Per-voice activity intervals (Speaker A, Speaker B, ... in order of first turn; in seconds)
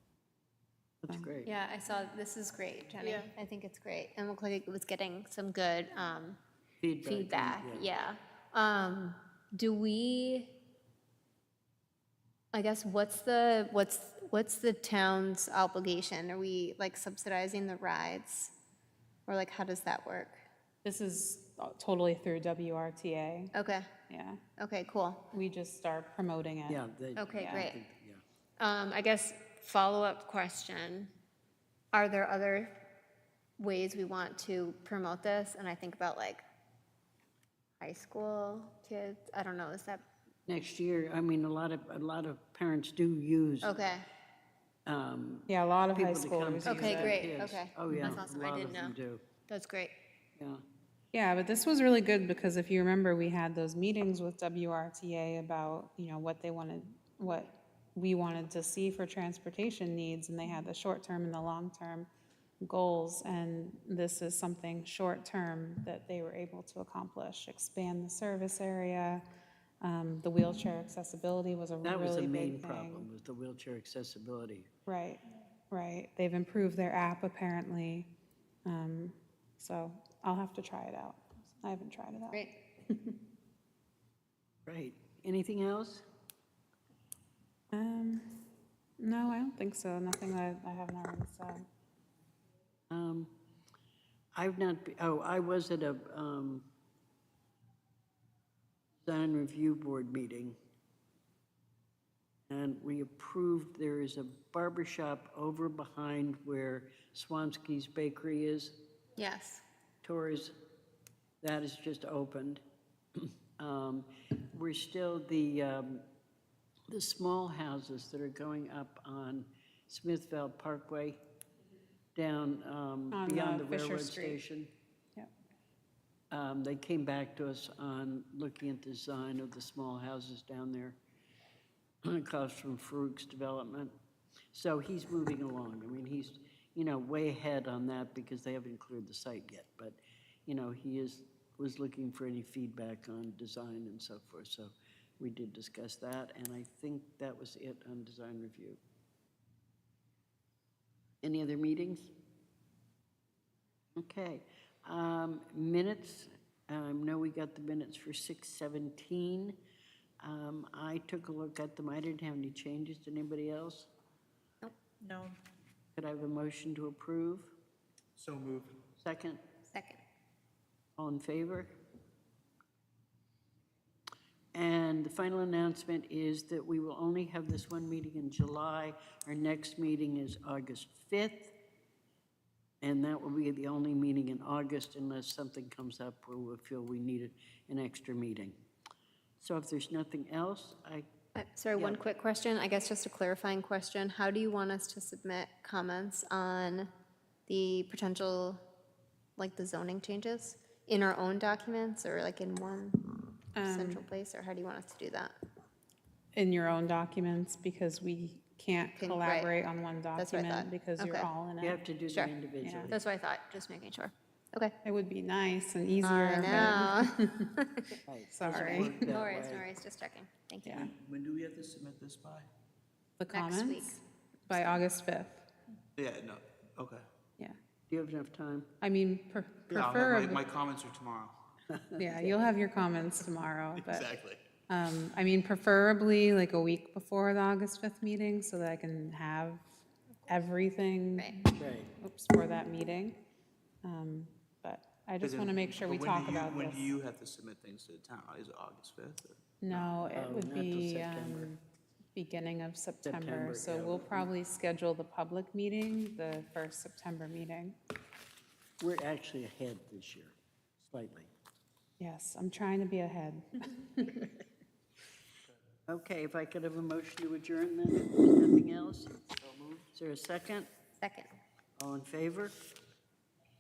Speaker A: 1.0-1.5, 6.8-7.9, 26.7-28.2, 40.5-43.8, 44.9-49.2, 50.4-50.6, 71.8-74.7, 84.7-86.0, 92.9-93.3, 94.3-96.7, 99.1-100.6, 102.5-108.8, 110.0-110.5, 111.4-112.6, 113.2-116.0, 116.9-121.2, 122.2-124.7, 126.3-131.0, 132.0-133.9, 134.5-148.8, 151.2-152.1, 154.0-159.6, 160.2-163.9, 166.0-167.6, 169.0-169.4, 171.0-171.7, 174.5-181.6, 182.8-188.6, 189.4-191.1, 191.8-192.0, 211.6-213.0, 218.1-219.7, 227.9-228.7, 231.7-232.5, 241.6-241.9, 250.1-251.5, 253.1-254.3, 258.8-261.3, 265.9-270.7, 271.8-272.6
Speaker B: 1.4-6.4, 7.0-10.6, 12.5-18.5, 19.3-20.5, 23.5-23.9, 24.6-25.3, 27.2-27.8, 28.6-31.1, 31.9-32.8, 33.6-36.4, 37.8-40.0, 43.6-44.1, 46.6-49.0, 49.5-50.0, 109.2-109.6, 169.7-170.0, 191.3-196.9, 197.5-198.6, 199.4-205.3, 209.0-209.5, 210.2-211.3, 212.9-214.8, 216.0-220.9, 223.3-224.0, 271.0-271.3
Speaker C: 20.8-23.5, 24.1-24.4, 25.3-26.8, 27.4-27.7, 45.5-47.2, 51.1-62.1, 62.6-69.2, 69.8-73.1, 74.9-78.1, 78.7-83.2, 87.7-88.4, 89.0-91.7, 123.1-124.4, 203.6-204.0, 206.3-211.8, 212.6-212.9, 214.8-217.5, 218.3-219.1, 220.7-220.9, 223.2-224.0, 224.5-225.5, 228.8-230.5, 232.0-234.1, 234.7-243.2, 243.8-246.8, 249.6-251.6, 252.2-257.8, 262.0-264.3
Speaker D: 165.0-165.3, 168.2-168.8, 218.5-219.2, 220.8-222.5, 226.0-227.1, 229.8-231.3, 233.8-234.4, 245.2-249.9